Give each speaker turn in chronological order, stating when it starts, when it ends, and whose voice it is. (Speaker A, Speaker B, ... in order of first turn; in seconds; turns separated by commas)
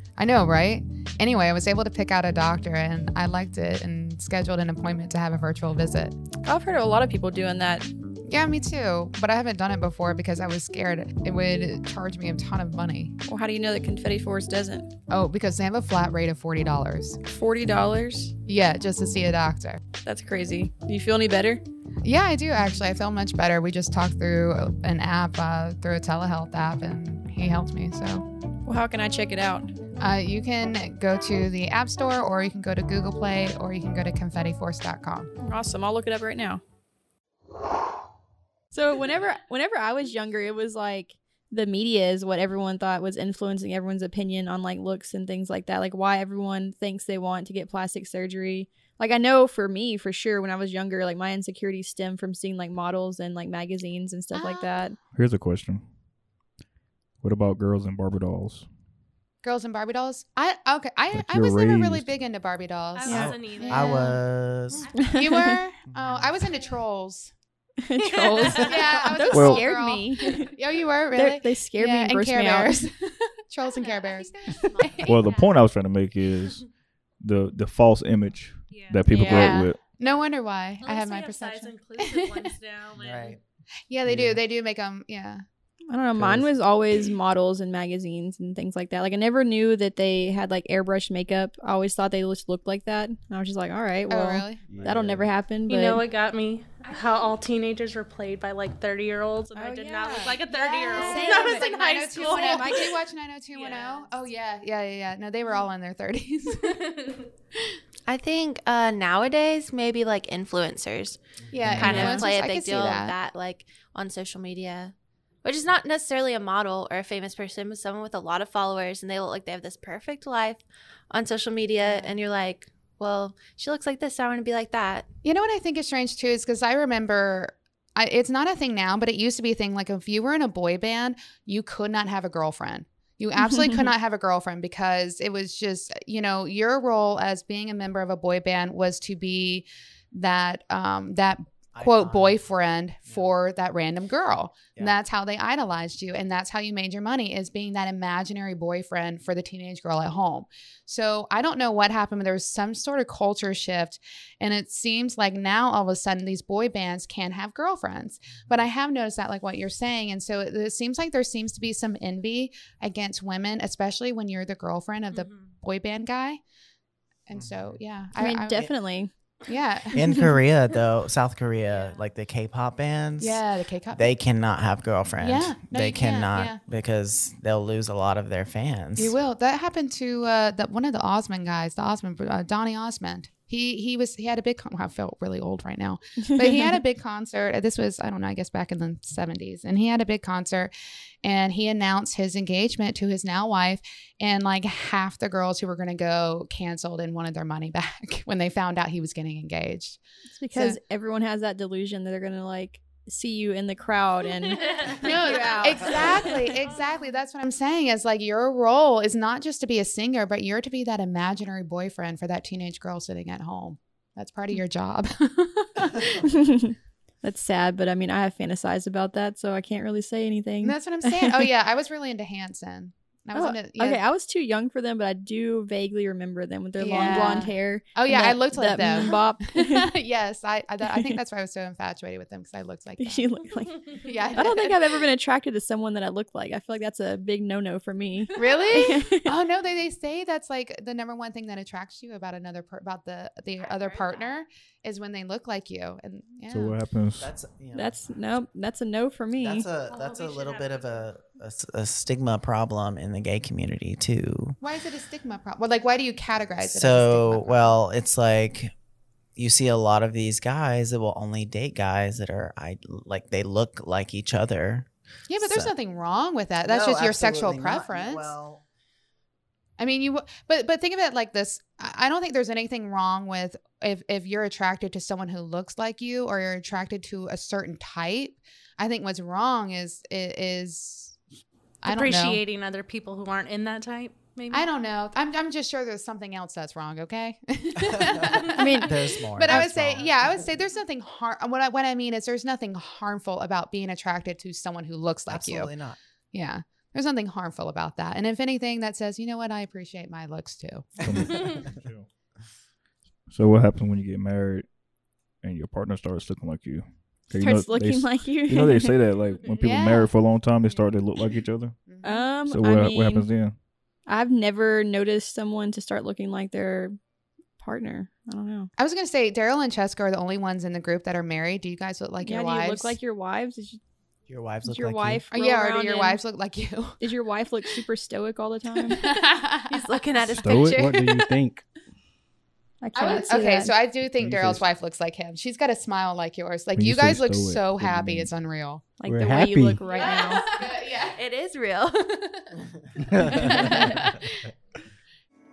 Speaker A: 0.2-6.1, Speaker B: 6.4-7.9, Speaker A: 8.3-13.1, Speaker B: 13.2-14.9, Speaker A: 15.1-17.2, Speaker B: 17.2-18.3, Speaker A: 18.4-19.8, Speaker B: 20.0-21.6, Speaker A: 22.0-28.2, Speaker B: 28.6-29.7, Speaker A: 30.0-35.3, Speaker B: 35.4-36.6, Speaker B: 38.7-54.9, Speaker A: 54.3-54.9, Speaker C: 55.1-55.8, Speaker C: 57.2-58.7, Speaker A: 59.4-64.2, Speaker C: 61.1-62.1, Speaker D: 62.9-64.2, Speaker E: 63.1-65.0, Speaker D: 64.7-65.1, Speaker A: 65.0-67.3, Speaker B: 65.0-65.6, Speaker E: 65.9-66.5, Speaker B: 67.8-70.5, Speaker D: 68.0-68.9, Speaker A: 68.5-75.4, Speaker C: 69.3-69.7, Speaker B: 71.1-72.8, Speaker F: 73.8-75.4, Speaker D: 74.0-74.7, Speaker C: 75.0-76.7, Speaker C: 77.2-79.8, Speaker D: 78.7-79.0, Speaker B: 79.1-79.6, Speaker A: 79.2-82.5, Speaker D: 80.8-83.4, Speaker E: 82.9-83.4, Speaker A: 83.9-85.4, Speaker G: 84.0-84.4, Speaker B: 85.9-96.0, Speaker G: 86.1-86.5, Speaker A: 94.1-94.6, Speaker G: 94.7-95.3, Speaker D: 95.7-103.0, Speaker B: 99.5-102.9, Speaker A: 100.5-106.8, Speaker D: 103.5-104.1, Speaker D: 106.6-107.2, Speaker F: 108.1-111.2, Speaker E: 111.5-112.2, Speaker A: 111.5-113.2, Speaker F: 111.7-125.0, Speaker D: 111.8-112.2, Speaker A: 121.8-122.2, Speaker A: 125.2-166.4, Speaker E: 141.7-142.4, Speaker D: 165.1-165.5, Speaker A: 167.3-168.7, Speaker E: 167.3-167.8, Speaker B: 168.2-169.1, Speaker A: 169.4-170.3, Speaker E: 169.9-173.4, Speaker A: 173.2-174.1, Speaker E: 173.9-179.2, Speaker A: 175.2-176.6, Speaker A: 178.9-190.7, Speaker A: 191.2-200.0, Speaker B: 200.3-206.6, Speaker A: 200.5-200.8, Speaker A: 204.8-216.3, Speaker B: 216.2-221.5, Speaker A: 220.6-224.0, Speaker B: 223.3-229.9, Speaker A: 226.8-233.2, Speaker B: 233.0-239.3, Speaker A: 234.0-235.0, Speaker A: 238.3-246.8, Speaker F: 238.3-239.0, Speaker F: 243.6-244.3, Speaker C: 246.5-247.3, Speaker E: 247.2-248.0, Speaker B: 247.7-249.7, Speaker E: 249.4-254.6, Speaker D: 249.9-250.8, Speaker A: 254.6-257.8, Speaker E: 256.3-258.7, Speaker E: 259.4-265.7, Speaker A: 265.3-268.3, Speaker E: 266.7-268.6, Speaker A: 269.8-281.2, Speaker A: 281.8-282.4, Speaker D: 281.9-284.6, Speaker A: 284.5-295.7, Speaker E: 287.8-290.4, Speaker B: 288.5-288.9, Speaker E: 295.3-296.0, Speaker A: 296.3-301.0, Speaker C: 301.0-302.1, Speaker E: 301.1-301.6, Speaker C: 303.3-304.7, Speaker C: 305.4-311.8, Speaker B: 307.3-309.0, Speaker A: 309.6-310.1, Speaker A: 311.9-312.2, Speaker B: 312.0-313.3, Speaker C: 312.5-313.5, Speaker B: 314.1-317.0, Speaker B: 317.6-318.7, Speaker A: 318.8-323.0, Speaker B: 322.2-323.8, Speaker E: 324.3-325.2, Speaker B: 324.6-326.2, Speaker A: 325.3-327.0, Speaker B: 327.0-329.0, Speaker A: 328.8-330.3, Speaker F: 329.7-331.4, Speaker C: 330.4-330.8, Speaker G: 330.4-331.6, Speaker B: 332.8-333.7, Speaker A: 332.9-338.8, Speaker G: 334.2-334.6, Speaker C: 336.7-338.3, Speaker B: 339.0-340.4, Speaker G: 339.0-339.9, Speaker A: 339.9-341.2, Speaker F: 341.1-342.2, Speaker G: 343.1-343.9, Speaker A: 343.2-344.4